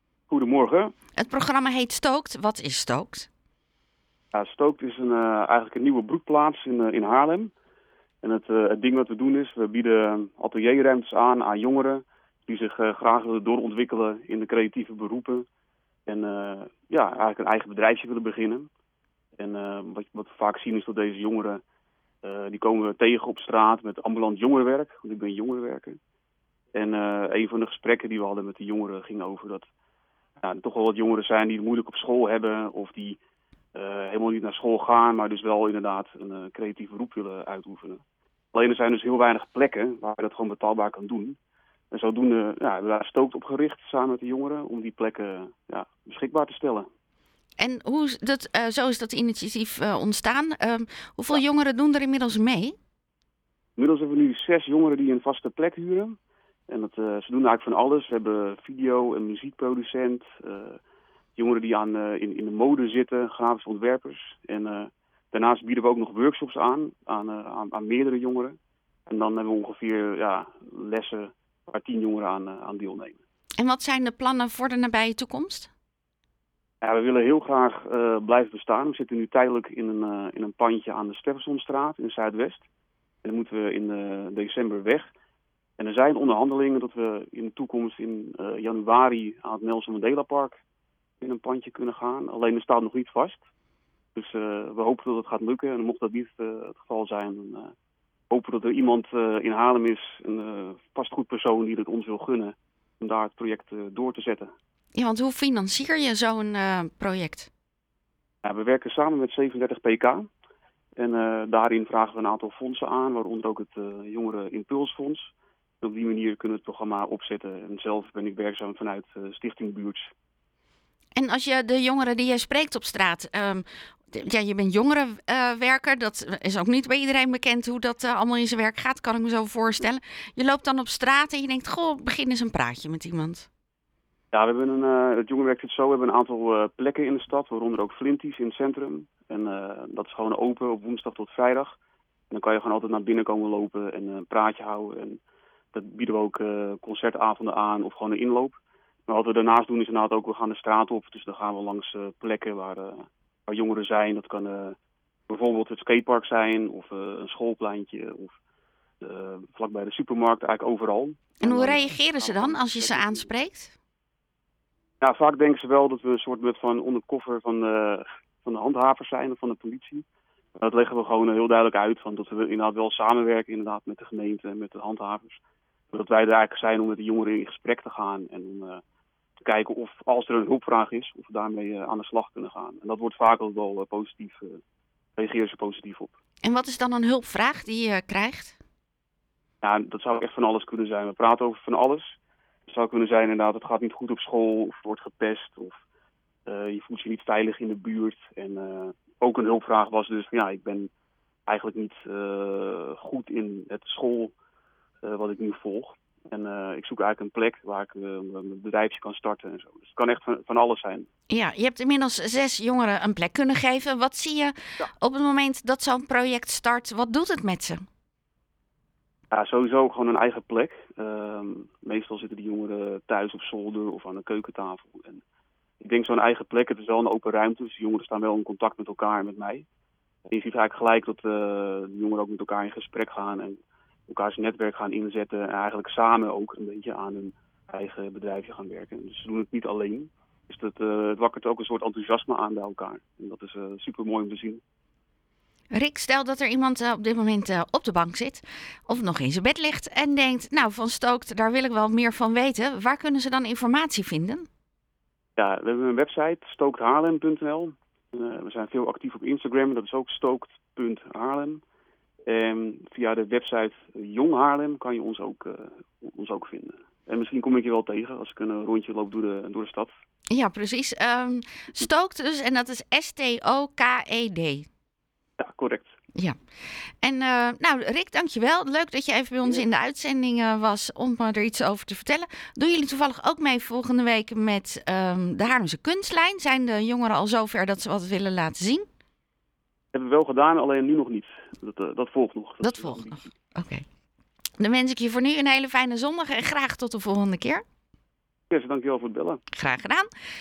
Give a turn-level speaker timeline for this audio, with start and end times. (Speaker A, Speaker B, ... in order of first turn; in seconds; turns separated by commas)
Speaker A: 0.3-0.9, Speaker B: 1.2-3.3, Speaker A: 4.3-7.5, Speaker A: 8.2-15.5, Speaker A: 16.1-18.7, Speaker A: 19.4-21.6, Speaker A: 22.2-26.0, Speaker A: 26.7-29.7, Speaker A: 30.4-33.2, Speaker A: 33.7-38.0, Speaker A: 38.5-41.4, Speaker A: 41.9-46.9, Speaker B: 47.6-52.8, Speaker A: 53.8-56.2, Speaker A: 56.7-60.8, Speaker A: 61.4-68.6, Speaker A: 69.1-73.2, Speaker B: 73.6-75.7, Speaker A: 76.8-82.7, Speaker A: 83.2-85.1, Speaker A: 85.8-90.6, Speaker A: 91.2-93.4, Speaker A: 94.2-97.7, Speaker A: 98.3-104.5, Speaker B: 104.9-107.5, Speaker A: 108.4-110.3, Speaker A: 111.0-120.1, Speaker B: 121.2-133.5, Speaker A: 134.3-141.8, Speaker A: 142.3-145.2, Speaker A: 145.7-154.8, Speaker A: 155.3-158.4, Speaker A: 159.0-163.3, Speaker B: 161.4-163.8, Speaker A: 165.0-170.1, Speaker A: 170.6-175.4, Speaker A: 175.9-178.8, Speaker A: 179.4-184.6, Speaker A: 185.2-186.2, Speaker B: 186.4-188.6, Speaker A: 189.6-195.8, Speaker A: 196.5-200.9, Speaker A: 201.5-204.3, Speaker A: 205.0-211.1, Speaker B: 211.3-217.8, Speaker A: 219.3-225.2, Speaker A: 225.8-229.7, Speaker A: 230.3-244.6, Speaker B: 245.7-254.5, Speaker A: 255.4-261.6, Speaker A: 262.3-269.9, Speaker B: 270.3-274.7, Speaker A: 275.4-275.9, Speaker B: 277.0-288.9, Speaker A: 289.9-293.3, Speaker B: 292.6-293.9, Speaker B: 294.6-297.6, Speaker A: 298.5-299.4, Speaker B: 299.5-300.1